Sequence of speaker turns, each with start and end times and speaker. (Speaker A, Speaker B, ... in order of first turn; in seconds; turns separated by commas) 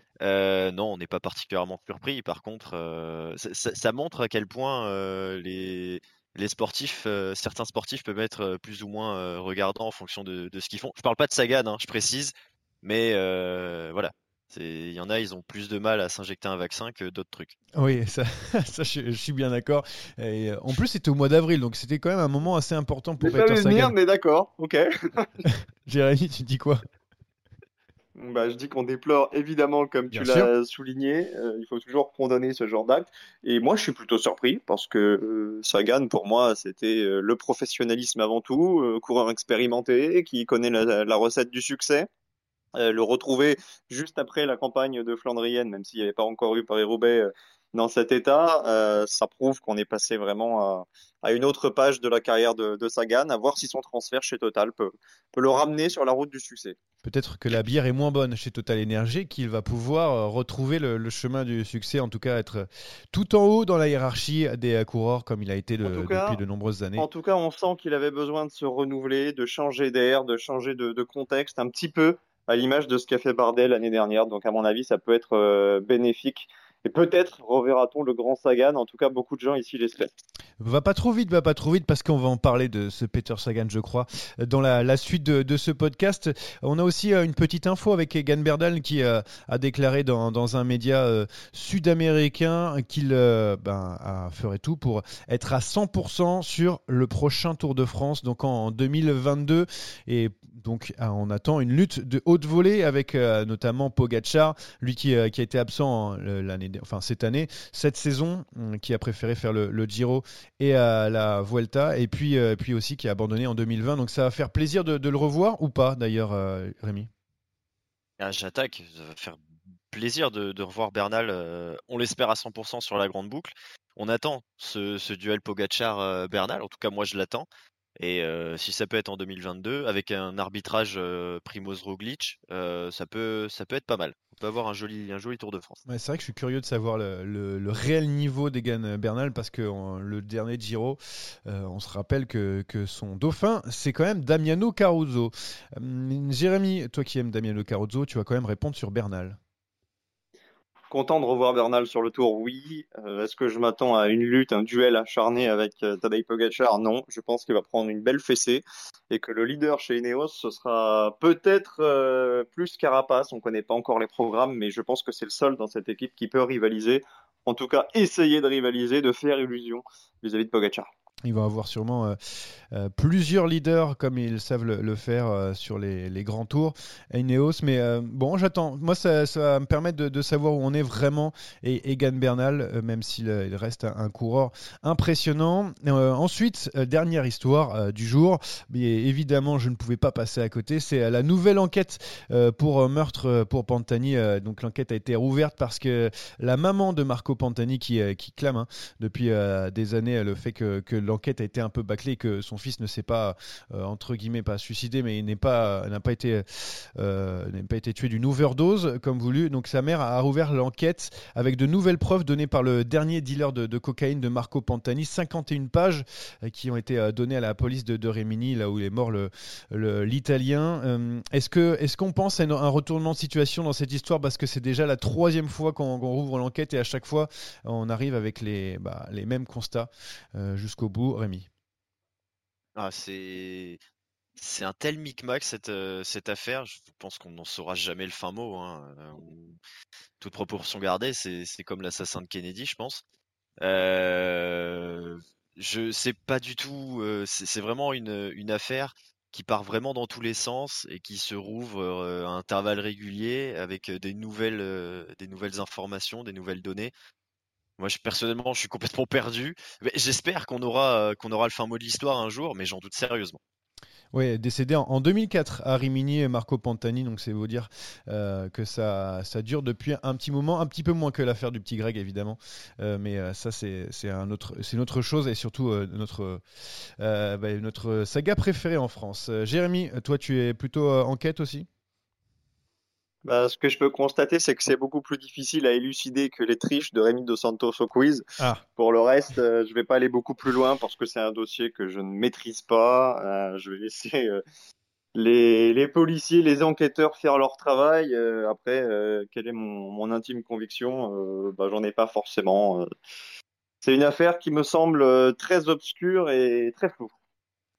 Speaker A: 0.2-17.6, Speaker B: 17.8-23.9, Speaker C: 23.2-25.4, Speaker B: 25.5-26.8, Speaker C: 28.2-42.1, Speaker B: 30.1-30.5, Speaker C: 42.8-56.8, Speaker B: 57.0-67.1, Speaker C: 65.8-66.4, Speaker C: 67.0-80.1, Speaker B: 80.6-117.1, Speaker A: 118.2-119.4, Speaker A: 119.9-135.8, Speaker B: 135.9-149.4, Speaker C: 150.9-170.9, Speaker B: 171.2-231.5, Speaker A: 232.8-233.8, Speaker A: 234.4-239.6, Speaker A: 240.2-243.0, Speaker A: 243.6-256.9, Speaker A: 257.8-263.4, Speaker B: 264.1-281.7, Speaker C: 283.2-288.2, Speaker C: 288.8-294.4, Speaker C: 295.1-302.9, Speaker C: 303.8-307.1